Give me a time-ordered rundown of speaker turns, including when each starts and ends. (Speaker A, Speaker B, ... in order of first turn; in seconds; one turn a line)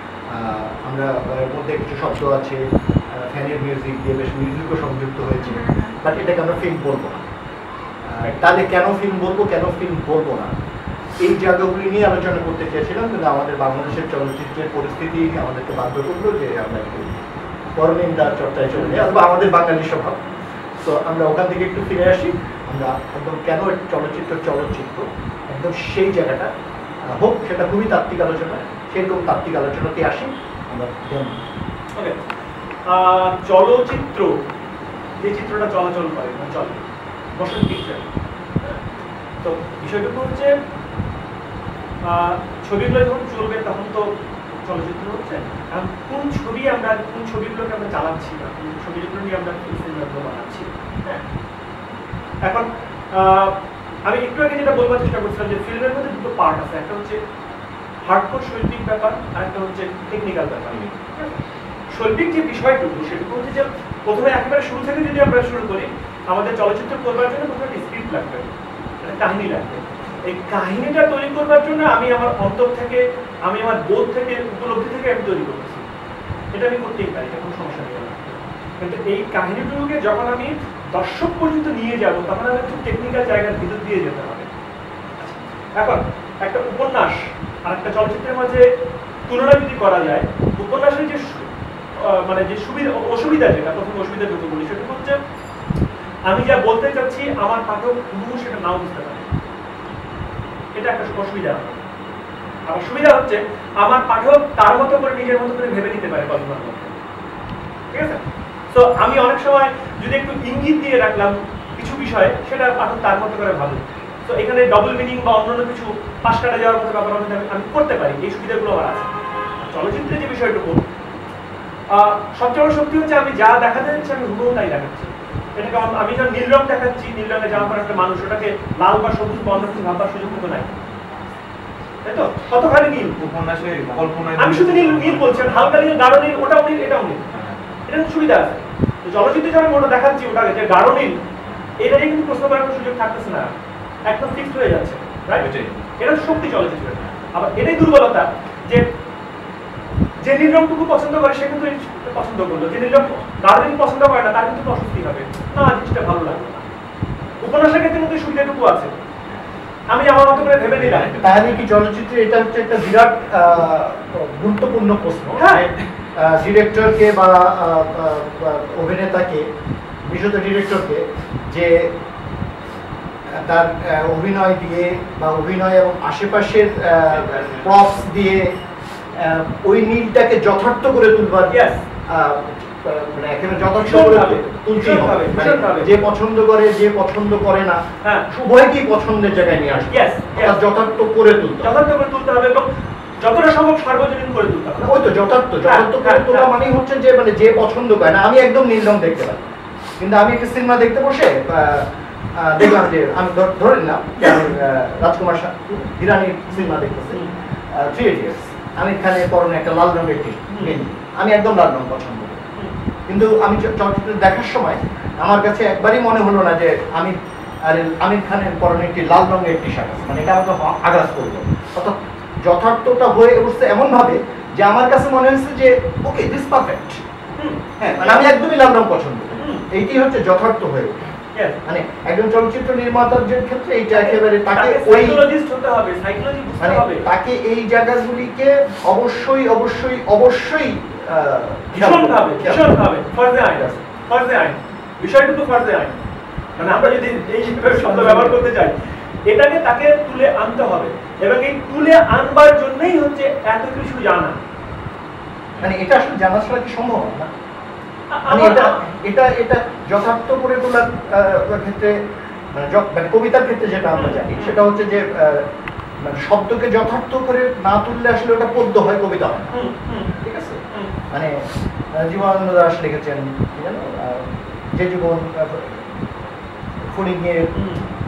Speaker A: 0.3-7.2
Speaker A: 8.0-10.5
Speaker A: 11.2-17.2
Speaker A: 17.8-20.2
Speaker B: 18.7-19.0
Speaker A: 20.8-26.5
Speaker A: 27.0-31.4
Speaker B: 32.9-34.4
Speaker B: 35.2-36.8
Speaker B: 37.4-38.1
Speaker B: 39.4-40.5
Speaker B: 42.0-44.1
Speaker B: 44.6-51.2
Speaker B: 52.5-53.5
Speaker B: 54.1-57.2
Speaker B: 58.1-61.4
Speaker B: 61.9-75.8
Speaker B: 76.5-84.5
Speaker B: 85.2-88.7
Speaker B: 89.3-95.2
Speaker B: 96.3-99.3
Speaker B: 100.7-101.8
Speaker B: 102.7-107.0
Speaker B: 107.9-120.8
Speaker B: 121.9-130.7
Speaker B: 132.0-133.2
Speaker C: 132.9-135.9
Speaker B: 134.4-137.2
Speaker C: 137.3-137.6
Speaker B: 137.9-141.2
Speaker B: 141.8-143.5
Speaker B: 144.1-145.5
Speaker C: 145.3-145.8
Speaker B: 146.0-148.8
Speaker B: 150.2-156.7
Speaker B: 157.4-158.9
Speaker B: 159.9-161.1
Speaker C: 160.3-161.7
Speaker A: 161.1-169.5
Speaker B: 165.3-165.7
Speaker A: 170.0-171.9
Speaker A: 173.3-178.5
Speaker C: 177.1-177.9
Speaker A: 179.2-191.8
Speaker B: 181.5-181.8
Speaker B: 183.8-185.9
Speaker B: 189.9-190.6
Speaker B: 191.6-192.7
Speaker B: 193.2-195.0
Speaker A: 194.8-212.4
Speaker B: 195.7-196.5
Speaker B: 210.5-210.8
Speaker A: 213.1-227.0
Speaker B: 227.4-227.6
Speaker A: 227.9-231.1
Speaker B: 229.3-229.7
Speaker A: 231.6-235.3
Speaker B: 234.0-237.0
Speaker A: 236.6-242.8
Speaker B: 241.7-245.9
Speaker B: 246.6-248.8
Speaker A: 247.4-248.5
Speaker B: 249.3-254.4
Speaker A: 255.6-257.3
Speaker B: 258.1-258.8
Speaker A: 258.3-262.0
Speaker A: 262.5-265.4
Speaker B: 263.9-264.6
Speaker A: 266.0-269.6
Speaker B: 269.5-270.1
Speaker A: 270.2-275.9
Speaker A: 276.9-277.8
Speaker B: 277.5-277.9